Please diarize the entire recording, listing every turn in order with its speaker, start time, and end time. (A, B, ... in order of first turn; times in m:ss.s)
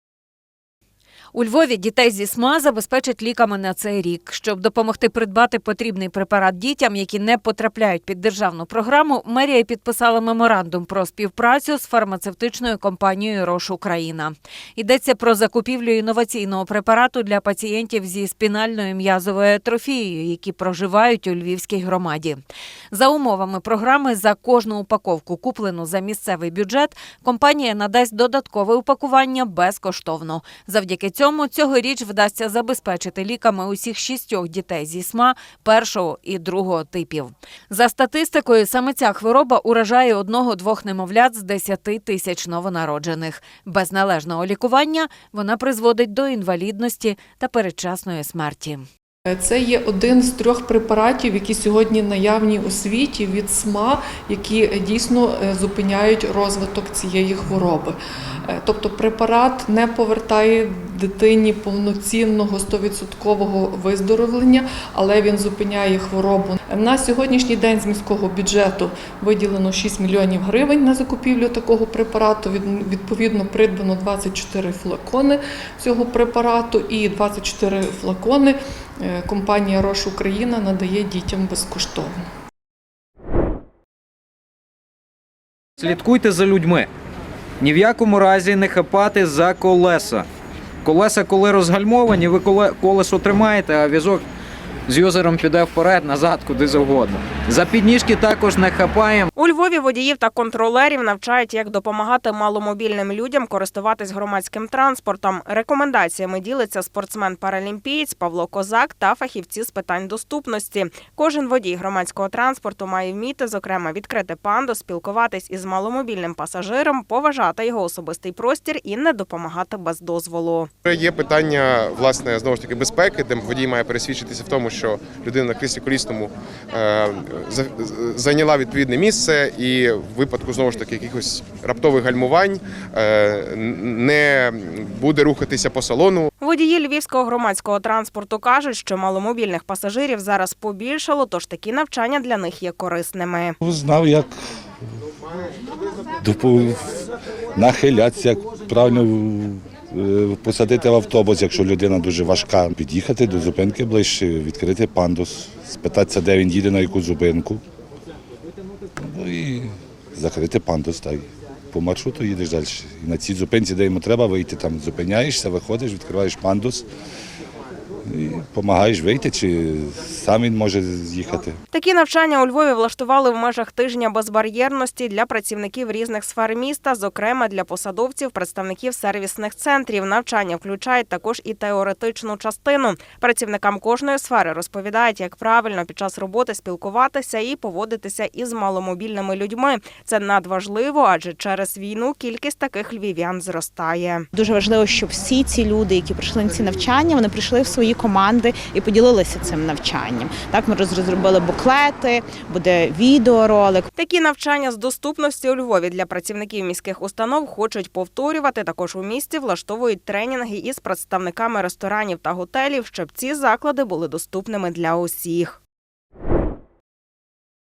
0:01.3-0:48.8 A
0:49.2-1:22.1 B
1:25.8-1:26.9 C
1:27.6-1:30.2 C
1:30.8-1:34.2 C
1:34.9-1:39.3 C
1:39.4-2:00.6 D
2:00.8-2:16.3 E
2:16.4-2:23.5 D
2:23.6-2:24.3 F
2:26.2-2:26.9 F
2:27.6-2:37.6 F
2:39.0-2:46.8 F
2:48.0-2:51.6 F
2:51.8-3:14.2 D
3:14.3-3:23.9 G
3:24.0-3:35.5 D